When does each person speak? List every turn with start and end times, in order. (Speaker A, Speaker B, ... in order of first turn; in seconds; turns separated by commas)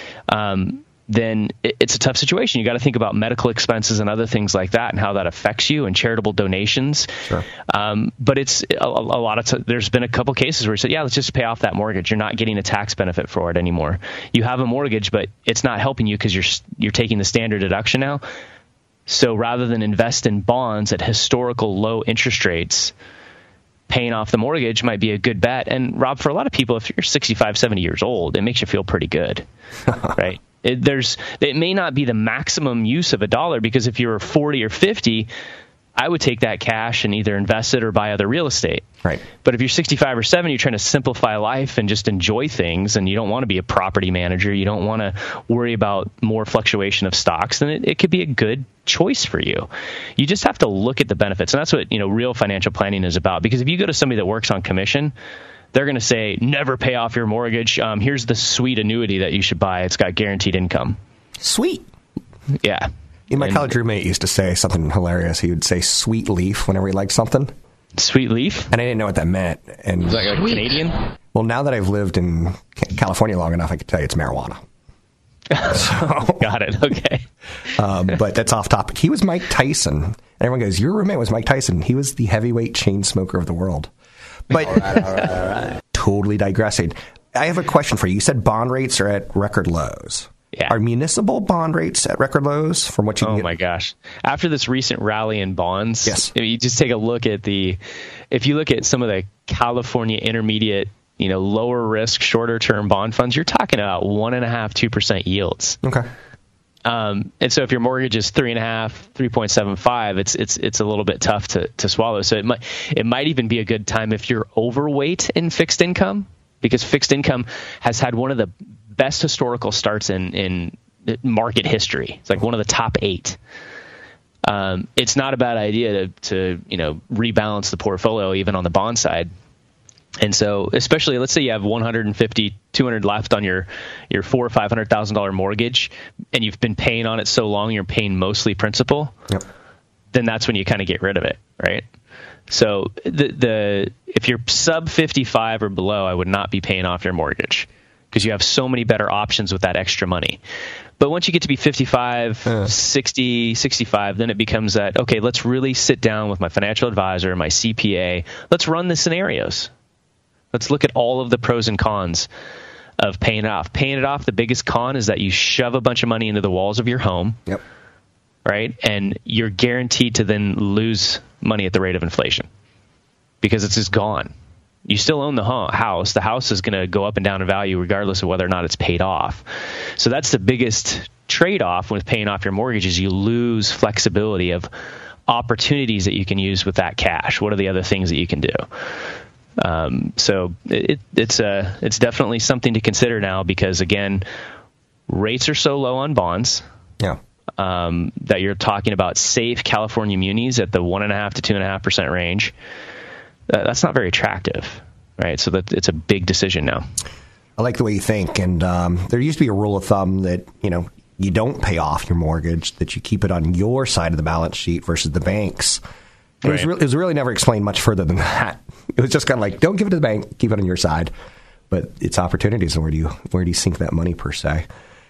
Speaker A: 0.3-7.1, Speaker A: 7.7-18.2, Speaker A: 19.1-22.9, Speaker A: 23.9-29.4, Speaker A: 30.1-35.3, Speaker A: 36.0-38.9, Speaker A: 39.4-55.1, Speaker A: 55.7-61.0, Speaker B: 61.4-61.9, Speaker A: 62.6-63.7, Speaker B: 63.3-67.5, Speaker A: 68.0-68.7, Speaker B: 68.7-70.3, Speaker A: 70.1-71.0, Speaker B: 71.3-74.6, Speaker A: 75.5-77.2, Speaker B: 75.7-76.5, Speaker B: 77.7-83.9, Speaker B: 84.5-93.5, Speaker A: 93.2-97.8, Speaker B: 96.0-96.3, Speaker A: 98.3-105.8, Speaker B: 105.8-106.1, Speaker A: 106.8-123.4, Speaker A: 124.4-129.3, Speaker A: 130.2-139.1, Speaker A: 140.1-141.9, Speaker A: 142.5-150.4, Speaker A: 151.0-159.7, Speaker A: 160.5-162.3, Speaker A: 163.0-167.4, Speaker A: 168.4-172.5, Speaker A: 173.4-174.3, Speaker A: 174.9-179.4, Speaker A: 180.0-184.7, Speaker A: 185.3-188.6, Speaker A: 189.6-194.2, Speaker A: 195.1-196.6, Speaker A: 197.6-202.5, Speaker A: 203.5-206.8, Speaker B: 207.6-215.8, Speaker B: 216.4-221.1, Speaker B: 221.7-224.7